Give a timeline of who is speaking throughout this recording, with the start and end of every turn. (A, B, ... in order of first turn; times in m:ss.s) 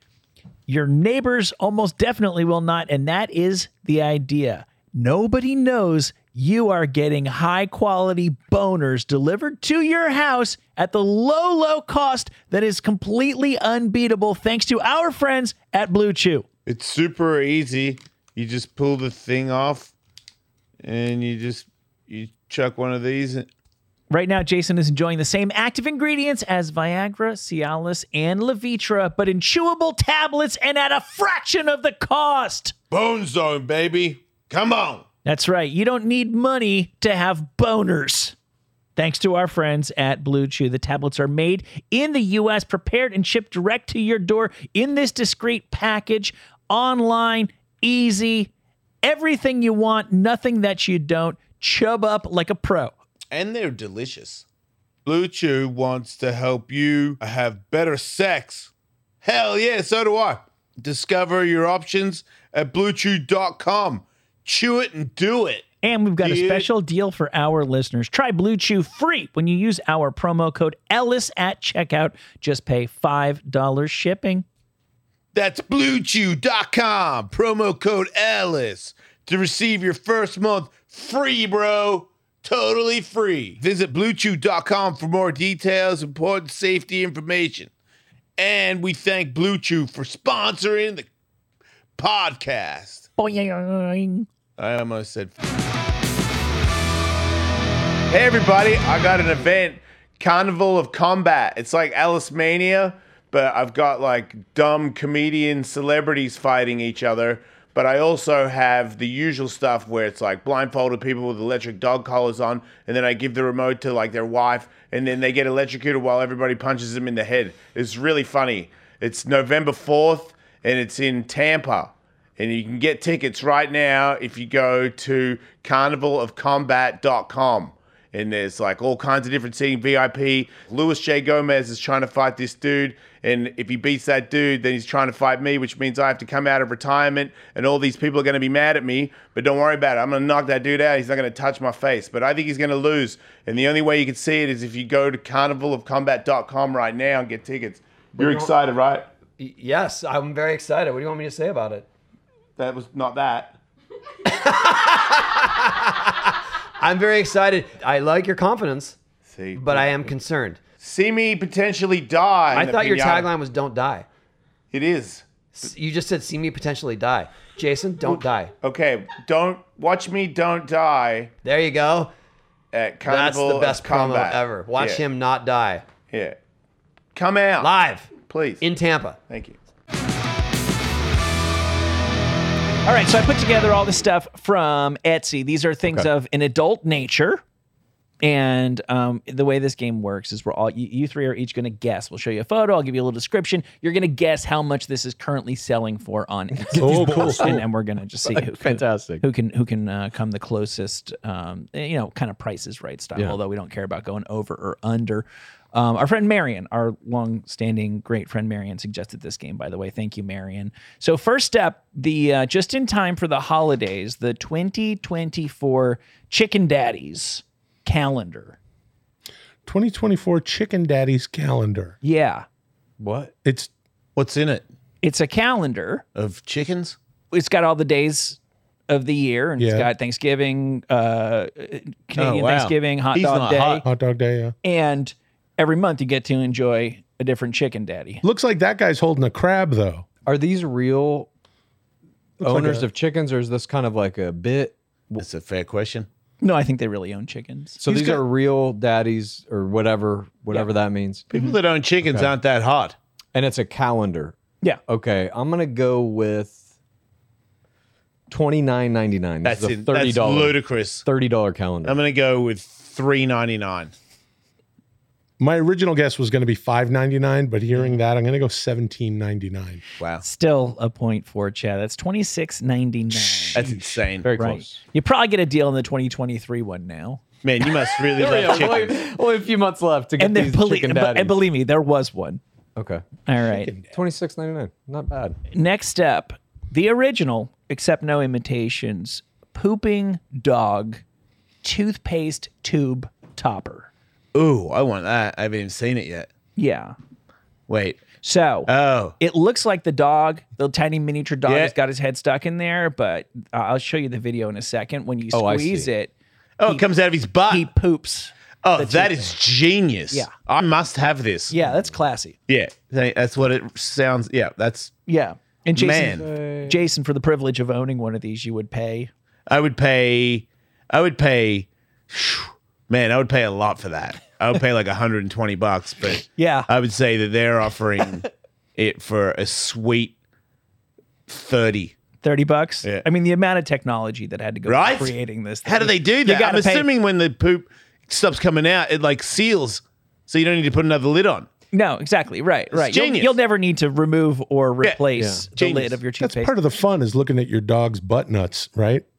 0:00.7-0:16.4 A
0:16.7-0:19.9 B
0:20.8-0:23.5 B
0:24.1-0:32.7 A
0:32.9-0:35.0 B
0:35.2-0:38.3 A
0:39.0-0:48.5 A
0:49.0-0:52.9 A
0:53.3-0:54.4 B
0:55.0-0:58.7 B
0:59.2-1:05.6 B
1:05.8-1:14.4 A
1:06.2-1:06.7 B
1:15.3-1:27.7 B
1:28.4-1:31.1 B
1:32.0-1:33.1 B
1:33.2-1:34.3 A
1:34.6-1:35.3 B
1:38.1-2:29.1 B
2:28.2-2:28.5 C
2:29.4-2:31.8 C
2:32.6-2:33.5 B
2:34.2-2:39.0 C
2:39.3-2:40.1 B
2:39.5-2:40.6 C
2:40.8-2:43.3 B
2:42.5-2:44.0 C
2:44.7-2:45.2 B
2:45.6-2:48.5 C
2:48.1-2:51.3 B
2:51.4-2:52.1 C
2:52.7-2:55.0 B
2:53.0-2:55.8 C
2:56.1-2:56.4 B
2:57.1-2:58.6 B
2:57.6-2:59.2 C
2:59.3-2:59.6 B
3:02.8-3:07.4 A
3:08.2-3:38.6 A
3:16.7-3:17.6 D
3:16.7-3:17.6 E
3:18.3-3:19.2 D
3:39.6-3:41.9 E
3:42.0-3:42.4 A
3:43.0-3:43.3 D
3:43.4-3:43.7 E
3:44.2-3:44.6 B
3:45.0-3:46.0 A
3:46.2-3:47.0 B
3:47.3-3:48.4 A
3:48.9-3:53.8 A
3:49.6-3:49.9 E
3:52.2-3:53.8 B
3:53.8-3:54.5 E
3:54.6-3:58.2 A
3:58.2-4:00.0 E
4:00.2-4:01.3 D
4:02.4-4:02.9 E
4:02.4-4:05.2 D
4:05.2-4:06.1 B
4:06.4-4:07.8 A
4:07.8-4:11.3 D
4:07.8-4:08.2 E
4:11.3-4:13.0 B
4:12.0-4:12.3 D
4:13.3-4:14.3 D
4:14.9-4:16.6 D
4:18.3-4:22.0 D
4:19.4-4:21.0 B
4:21.8-4:23.9 B
4:25.4-4:29.8 E
4:30.0-4:30.2 B
4:30.2-4:33.6 A
4:33.4-4:33.7 E
4:33.5-4:34.3 B
4:34.2-4:34.8 D
4:34.4-4:37.2 A
4:37.4-4:39.0 B
4:38.2-4:41.4 D
4:40.2-4:42.4 A
4:42.8-4:43.0 D
4:43.2-4:43.7 A
4:43.4-4:43.9 E
4:43.9-4:45.4 D
4:45.5-4:51.0 A
4:51.6-4:53.9 A
4:54.3-4:56.3 B
4:56.6-4:56.9 A
4:57.7-4:58.0 B
4:58.2-5:06.1 A
4:58.7-4:59.2 B
5:01.5-5:01.7 B
5:05.3-5:05.9 D
5:06.6-5:07.7 B
5:07.5-5:09.3 A
5:08.6-5:11.5 B
5:11.5-5:12.3 A
5:12.5-5:14.9 B
5:15.1-5:19.1 A
5:15.7-5:16.3 B
5:16.0-5:16.8 D
5:19.5-5:30.1 B
5:26.4-5:26.7 A
5:31.3-5:31.9 B
5:32.2-5:36.9 A
5:34.7-5:41.5 B
5:41.7-5:46.5 A
5:42.7-5:43.3 B
5:45.2-5:45.4 D
5:45.6-5:46.0 B
5:46.2-5:49.0 E